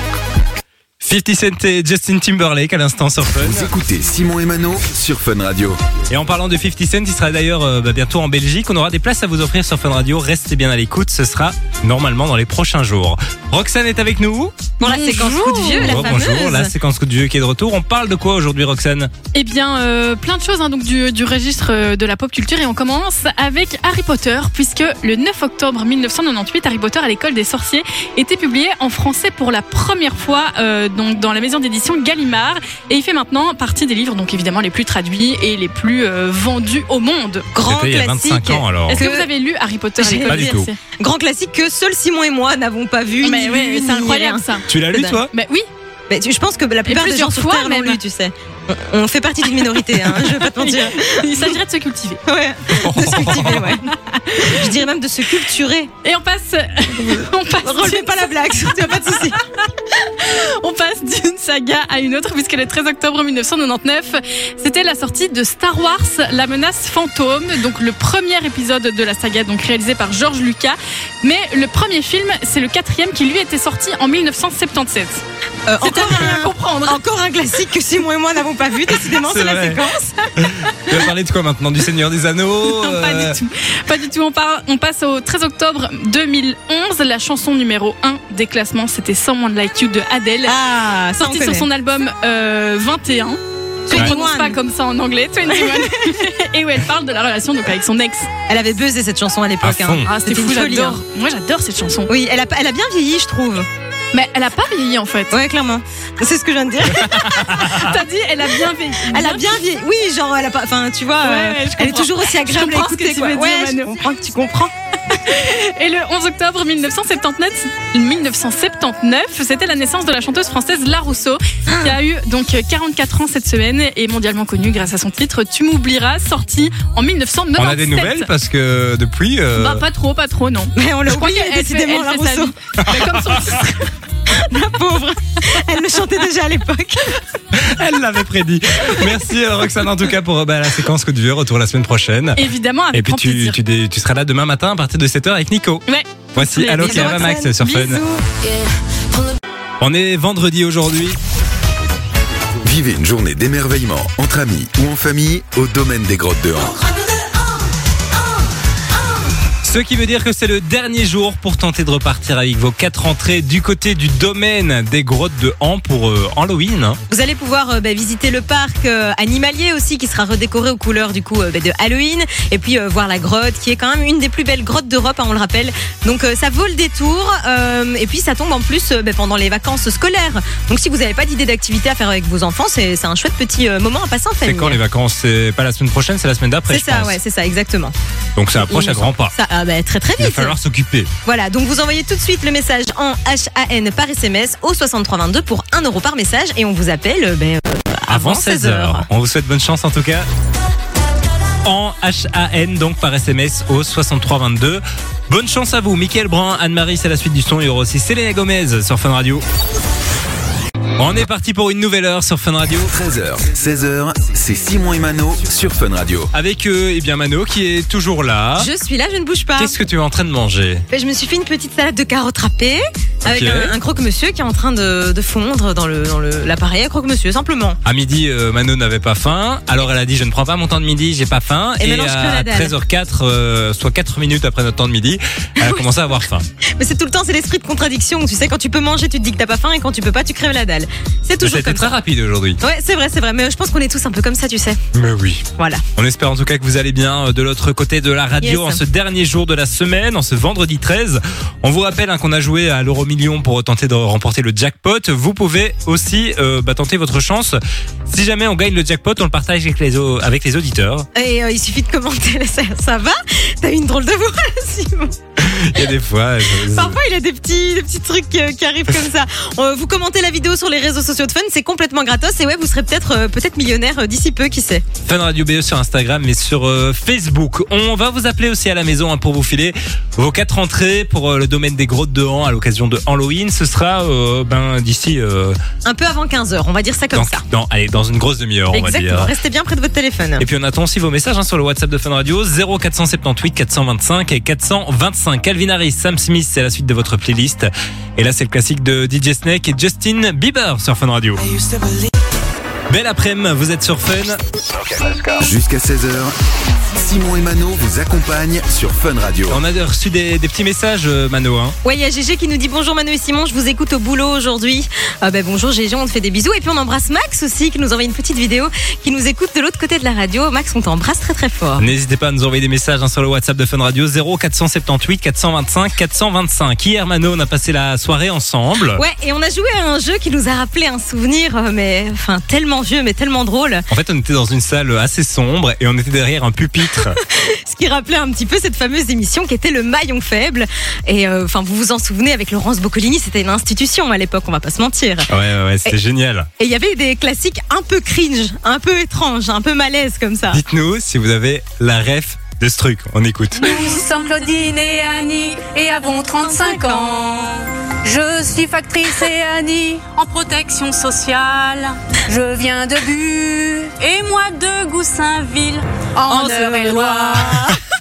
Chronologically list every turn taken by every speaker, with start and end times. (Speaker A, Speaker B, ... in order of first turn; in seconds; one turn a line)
Speaker A: 1.0-3.7
Speaker B: 3.4-5.8
Speaker A: 6.1-14.7
Speaker C: 14.8-16.7
Speaker D: 14.8-16.4
Speaker A: 15.7-19.1
Speaker D: 19.3-37.5
Speaker C: 37.5-39.3
Speaker A: 37.6-39.0
Speaker D: 38.9-40.8
Speaker C: 40.0-45.2
Speaker A: 40.3-40.7
Speaker D: 43.2-44.7
Speaker A: 44.7-45.3
Speaker D: 45.3-45.7
Speaker C: 46.1-51.6
Speaker D: 46.9-48.0
Speaker D: 49.7-52.2
Speaker C: 52.3-55.9
Speaker A: 52.7-53.7
Speaker D: 53.6-54.5
Speaker D: 56.0-75.2
Speaker C: 57.6-59.4
Speaker C: 75.7-80.3
Speaker D: 75.8-77.0
Speaker A: 79.0-79.8
Speaker A: 80.4-83.4
Speaker D: 82.6-90.6
Speaker C: 90.5-91.7
Speaker D: 91.2-98.3
Speaker C: 93.9-94.6
Speaker C: 95.5-96.2
Speaker C: 98.5-101.0
Speaker A: 99.6-100.1
Speaker D: 100.1-102.1
Speaker C: 102.1-103.7
Speaker D: 104.1-105.3
Speaker C: 105.3-107.8
Speaker A: 107.0-107.8
Speaker D: 107.6-109.6
Speaker C: 109.1-114.7
Speaker D: 111.2-114.0
Speaker D: 115.1-128.3
Speaker A: 127.6-129.8
Speaker D: 129.6-133.9
Speaker C: 130.8-132.5
Speaker A: 132.8-133.4
Speaker C: 134.3-137.2
Speaker A: 137.5-145.8
Speaker D: 142.4-143.6
Speaker D: 145.9-147.5
Speaker A: 146.4-148.0
Speaker C: 146.8-148.2
Speaker A: 149.8-151.2
Speaker B: 152.6-156.8
Speaker A: 159.6-167.0
Speaker C: 167.1-184.8
Speaker A: 184.4-187.2
Speaker C: 186.7-187.9
Speaker A: 188.4-189.3
Speaker C: 188.6-190.6
Speaker A: 190.2-191.1
Speaker C: 191.2-199.1
Speaker A: 198.1-200.3
Speaker A: 201.6-209.4
Speaker A: 211.0-212.9
Speaker B: 212.8-216.3
Speaker A: 216.3-218.7
Speaker C: 218.6-219.8
Speaker A: 219.6-220.8
Speaker C: 220.9-227.8
Speaker A: 223.2-223.8
Speaker A: 227.8-236.5
Speaker C: 231.8-232.7
Speaker C: 235.6-235.9
Speaker C: 236.8-241.9
Speaker A: 241.4-242.6
Speaker C: 242.6-244.8
Speaker A: 244.9-245.4
Speaker C: 245.6-245.8
Speaker A: 246.0-261.1
Speaker C: 248.4-248.8
Speaker C: 261.1-265.1
Speaker A: 265.4-267.0
Speaker C: 266.7-274.9
Speaker A: 275.1-285.6
Speaker C: 285.9-287.4
Speaker A: 287.1-289.3
Speaker C: 288.7-290.4
Speaker A: 290.4-301.4
Speaker A: 302.9-304.4
Speaker B: 304.9-306.3
Speaker B: 306.9-309.6
Speaker A: 309.5-311.8
Speaker C: 311.8-321.9
Speaker A: 321.8-329.0
Speaker C: 329.0-333.9
Speaker A: 333.9-337.2
Speaker C: 337.3-345.3
Speaker A: 345.3-346.5
Speaker C: 346.6-350.6
Speaker A: 350.5-353.7
Speaker E: 353.6-367.7
Speaker C: 366.3-367.8